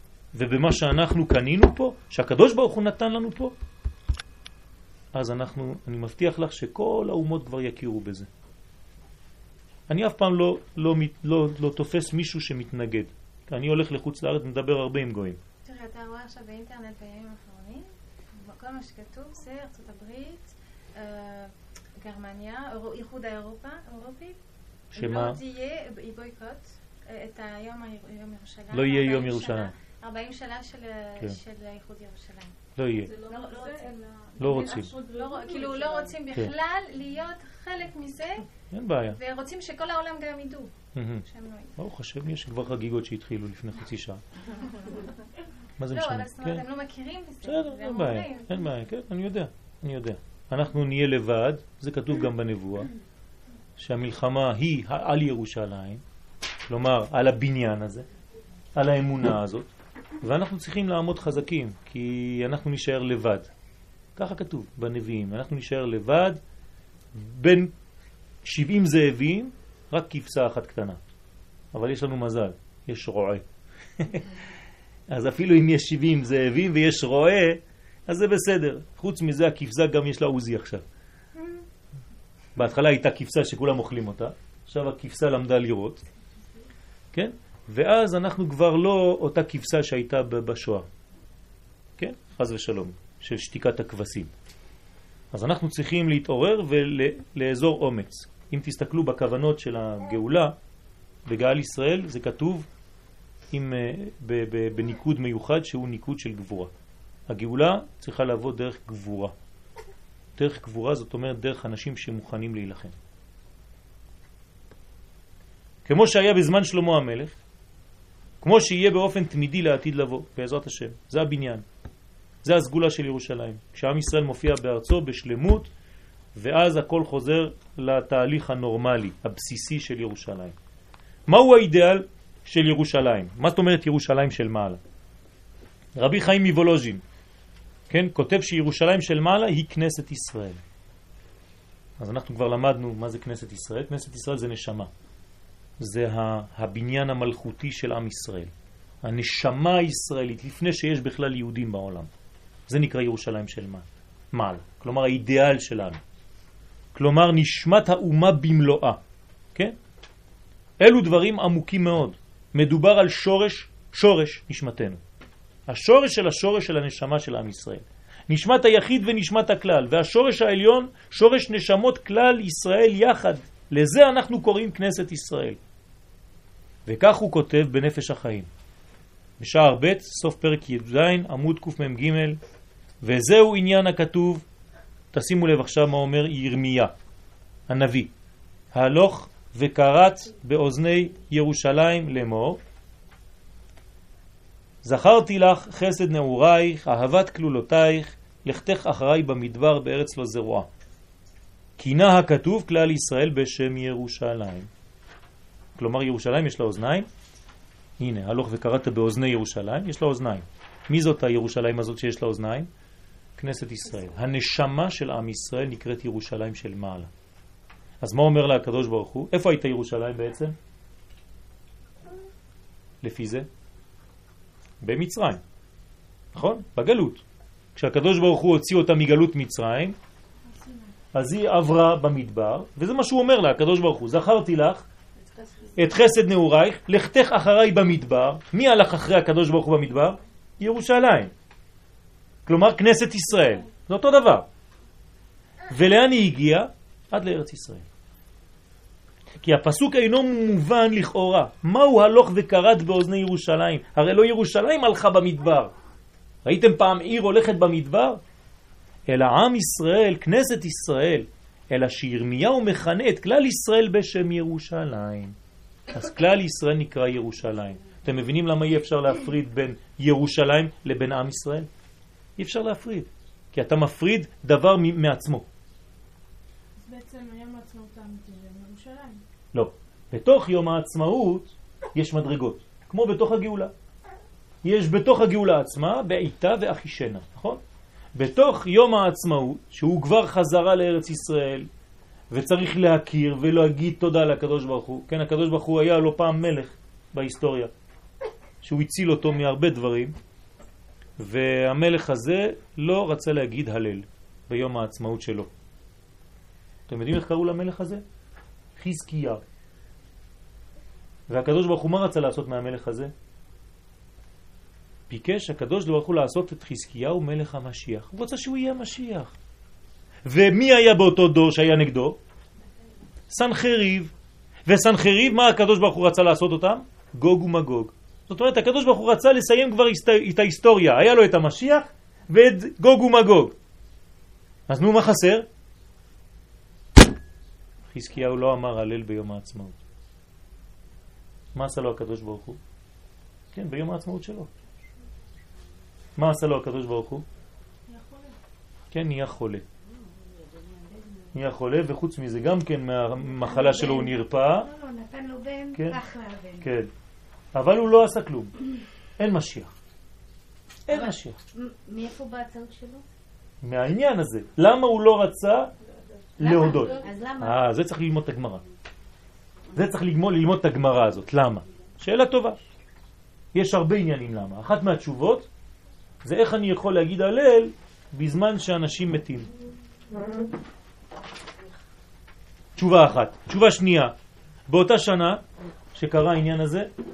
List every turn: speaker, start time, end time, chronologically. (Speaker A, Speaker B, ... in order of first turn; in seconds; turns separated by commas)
Speaker A: 0.3-3.5, Speaker A: 5.1-8.3, Speaker A: 9.9-15.4, Speaker B: 15.7-24.4, Speaker A: 24.9-25.4, Speaker B: 24.9-32.5, Speaker A: 28.7-29.7, Speaker A: 32.8-33.1, Speaker C: 33.0-36.2, Speaker B: 33.2-38.5, Speaker A: 34.4-34.9, Speaker A: 38.7-39.2, Speaker B: 39.2-40.7, Speaker A: 41.0-41.2, Speaker B: 41.2-41.8, Speaker A: 41.8-44.2, Speaker A: 45.8-46.6, Speaker B: 45.9-48.7, Speaker A: 47.4-52.9, Speaker A: 53.8-56.0, Speaker A: 56.7-58.1, Speaker A: 58.8-59.7, Speaker A: 60.2-63.5, Speaker A: 64.2-66.4, Speaker A: 67.1-67.7, Speaker A: 68.4-71.0, Speaker A: 71.7-73.4, Speaker A: 74.0-74.3, Speaker A: 75.1-80.8, Speaker A: 82.5-86.0, Speaker A: 87.1-90.9, Speaker A: 92.0-94.3, Speaker A: 95.3-100.5, Speaker A: 101.3-102.7, Speaker A: 103.5-106.7, Speaker A: 107.3-109.3, Speaker A: 110.4-113.0, Speaker A: 115.8-117.4, Speaker A: 118.4-121.6, Speaker A: 122.4-125.7, Speaker A: 126.3-130.6, Speaker A: 131.3-134.8, Speaker A: 136.0-137.0, Speaker A: 137.9-140.6, Speaker A: 142.0-144.9, Speaker A: 145.8-148.5, Speaker A: 149.0-152.1, Speaker A: 152.7-156.0, Speaker A: 156.9-159.0, Speaker A: 160.8-165.0, Speaker A: 165.7-175.6, Speaker A: 176.9-178.5, Speaker A: 179.4-182.4, Speaker A: 183.0-184.4, Speaker A: 185.1-186.9, Speaker A: 187.7-188.1, Speaker A: 188.7-192.6, Speaker A: 194.8-200.7, Speaker A: 201.8-204.7, Speaker A: 205.8-207.1, Speaker A: 208.0-212.7, Speaker A: 213.4-217.1, Speaker A: 218.0-220.6, Speaker A: 223.0-223.5, Speaker A: 224.8-225.4, Speaker A: 226.3-227.2, Speaker A: 227.8-230.0, Speaker C: 230.4-230.9, Speaker A: 231.1-234.9, Speaker A: 235.8-241.3, Speaker A: 242.5-244.5, Speaker A: 245.7-247.9, Speaker A: 249.4-255.7, Speaker A: 256.4-258.2, Speaker A: 259.1-265.4, Speaker A: 265.9-271.7, Speaker A: 272.4-275.5, Speaker C: 276.8-279.2, Speaker A: 279.5-283.7, Speaker A: 284.6-287.6, Speaker A: 288.1-291.7, Speaker A: 292.3-297.7, Speaker A: 298.6-300.1, Speaker A: 301.2-305.5, Speaker A: 306.9-308.0, Speaker A: 308.8-309.4, Speaker A: 311.3-313.1, Speaker A: 315.1-319.3, Speaker A: 320.3-322.2, Speaker A: 323.3-324.1, Speaker A: 324.7-333.6, Speaker A: 334.7-335.5, Speaker A: 337.9-339.8, Speaker A: 341.5-342.6, Speaker A: 343.5-344.5, Speaker A: 346.2-347.2, Speaker C: 347.9-348.4, Speaker A: 348.9-349.6, Speaker D: 349.9-351.3, Speaker A: 351.3-354.7, Speaker D: 353.4-356.7, Speaker A: 355.7-356.0, Speaker A: 356.6-356.9, Speaker A: 357.5-358.5, Speaker A: 359.2-359.7, Speaker A: 360.9-361.4, Speaker D: 360.9-363.1, Speaker A: 363.6-365.7, Speaker D: 366.4-367.6, Speaker A: 366.4-368.6, Speaker A: 369.7-372.6, Speaker A: 373.5-375.5, Speaker A: 376.2-379.5, Speaker A: 382.8-384.1, Speaker A: 384.7-385.4, Speaker A: 385.9-386.9